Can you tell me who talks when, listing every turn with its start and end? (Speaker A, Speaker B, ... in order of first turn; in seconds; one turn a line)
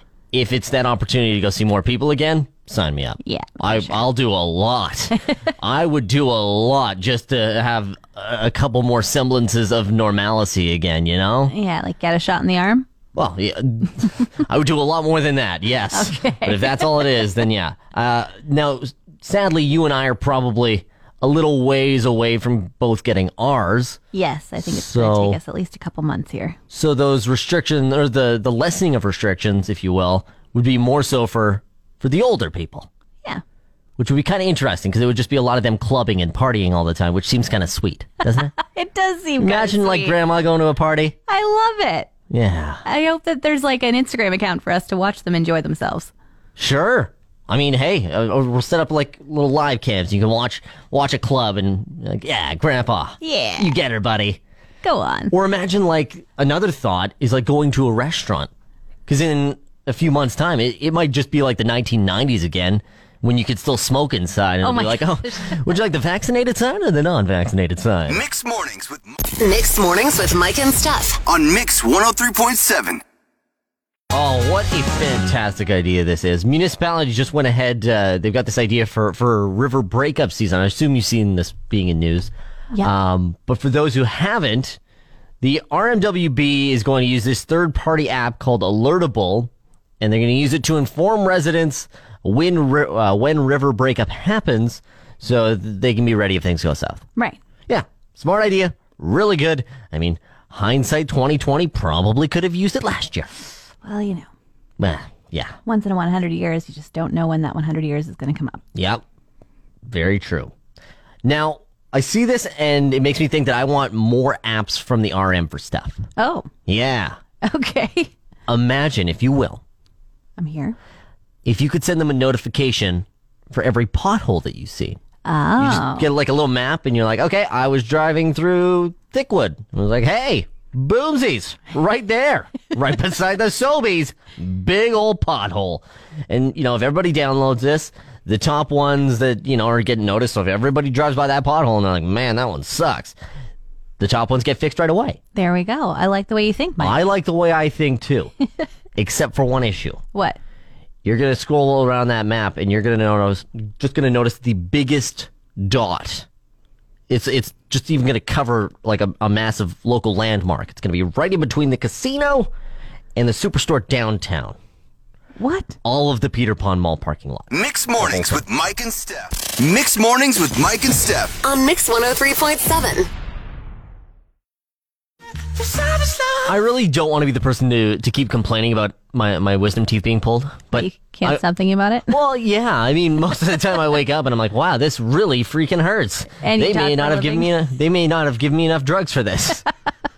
Speaker A: 0.3-11.5
Speaker B: 3.2-4.1
Speaker B: 11.5-12.9
Speaker A: 13.1-24.0
Speaker B: 15.9-17.2
Speaker B: 24.1-26.6
Speaker A: 24.6-25.4
Speaker A: 26.7-32.9
Speaker A: 34.0-38.5
Speaker B: 38.6-40.2
Speaker A: 39.4-41.1
Speaker B: 41.3-42.1
Speaker A: 42.3-42.8
Speaker B: 42.8-46.1
Speaker A: 46.6-54.4
Speaker B: 53.2-53.8
Speaker B: 54.8-55.3
Speaker A: 55.3-58.5
Speaker A: 59.1-68.2
Speaker B: 64.6-65.7
Speaker C: 68.1-69.2
Speaker D: 69.4-71.2
Speaker C: 71.2-73.0
Speaker A: 74.1-84.8
Speaker A: 85.4-97.0
Speaker A: 97.7-103.5
Speaker B: 103.8-104.3
Speaker A: 104.8-105.6
Speaker B: 105.7-108.6
Speaker A: 108.8-109.0
Speaker A: 109.8-110.5
Speaker A: 111.2-116.0
Speaker B: 116.2-116.5
Speaker A: 116.7-117.2
Speaker B: 117.4-118.1
Speaker A: 118.5-119.6
Speaker B: 120.4-120.8
Speaker A: 121.4-125.0
Speaker B: 125.2-126.1
Speaker A: 125.6-143.2
Speaker A: 144.0-145.2
Speaker B: 145.3-147.0
Speaker A: 146.8-148.3
Speaker A: 148.9-150.0
Speaker A: 151.1-156.2
Speaker A: 157.1-162.5
Speaker A: 163.1-164.6
Speaker B: 165.4-165.8
Speaker A: 165.8-168.4
Speaker C: 167.5-171.4
Speaker D: 171.4-173.1
Speaker A: 176.4-181.4
Speaker B: 180.7-182.1
Speaker A: 182.1-189.6
Speaker B: 186.4-187.5